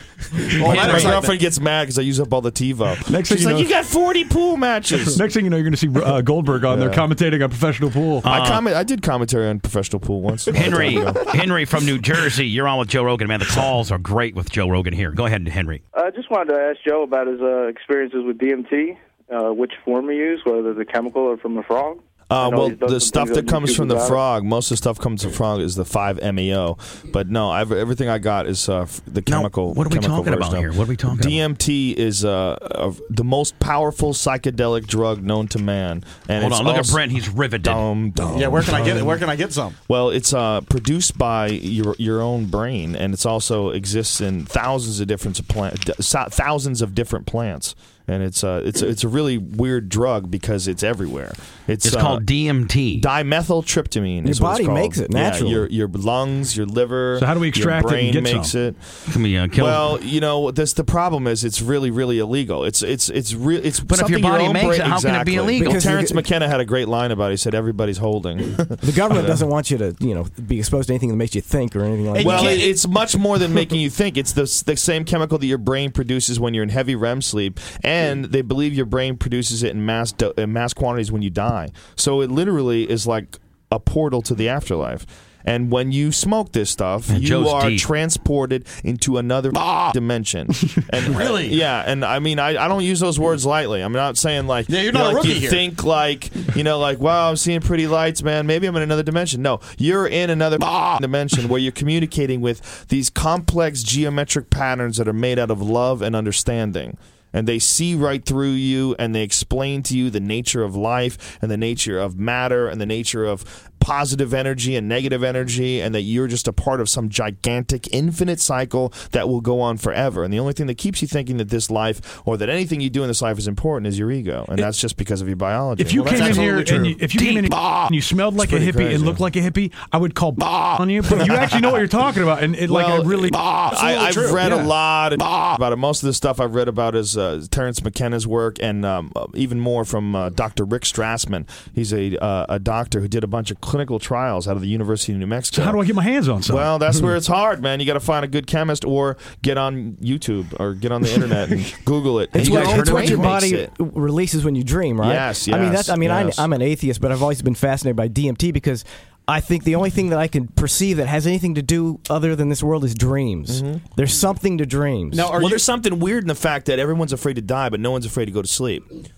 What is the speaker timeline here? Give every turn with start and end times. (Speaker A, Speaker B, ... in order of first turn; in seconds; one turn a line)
Speaker A: 0.5-1.3
Speaker B: 0.6-5.2
Speaker C: 0.6-1.2
Speaker D: 3.1-3.7
Speaker D: 5.1-8.2
Speaker B: 6.7-7.0
Speaker C: 8.2-8.6
Speaker B: 8.3-11.3
Speaker C: 10.5-15.8
Speaker E: 16.0-24.2
Speaker B: 22.3-37.0
Speaker C: 29.3-31.4
Speaker C: 36.4-37.8
Speaker B: 37.6-39.2
Speaker A: 38.3-39.8
Speaker B: 39.9-52.2
Speaker C: 51.8-53.1
Speaker B: 53.0-58.8
Speaker F: 54.2-55.7
Speaker D: 57.2-58.5
Speaker C: 59.1-59.9
Speaker B: 59.5-69.4
Speaker C: 63.9-65.8
Speaker F: 65.5-66.2
Speaker F: 68.8-72.7
Speaker A: 72.1-72.8
Speaker B: 72.2-126.7
Speaker C: 87.1-87.8
Speaker A: 91.1-91.6
Speaker A: 94.7-95.7
Speaker D: 125.8-133.6
Speaker A: 125.9-127.0
Speaker C: 127.2-127.4
Speaker B: 128.4-129.2
Speaker B: 132.7-145.8
Speaker A: 133.7-134.4
Speaker D: 134.4-134.7
Speaker D: 145.5-146.7
Speaker B: 146.5-153.7
Speaker F: 152.3-165.3
Speaker D: 152.3-153.4
Speaker B: 155.0-156.5
Speaker B: 163.5-163.8
Speaker A: 165.1-165.6
Speaker B: 165.3-168.9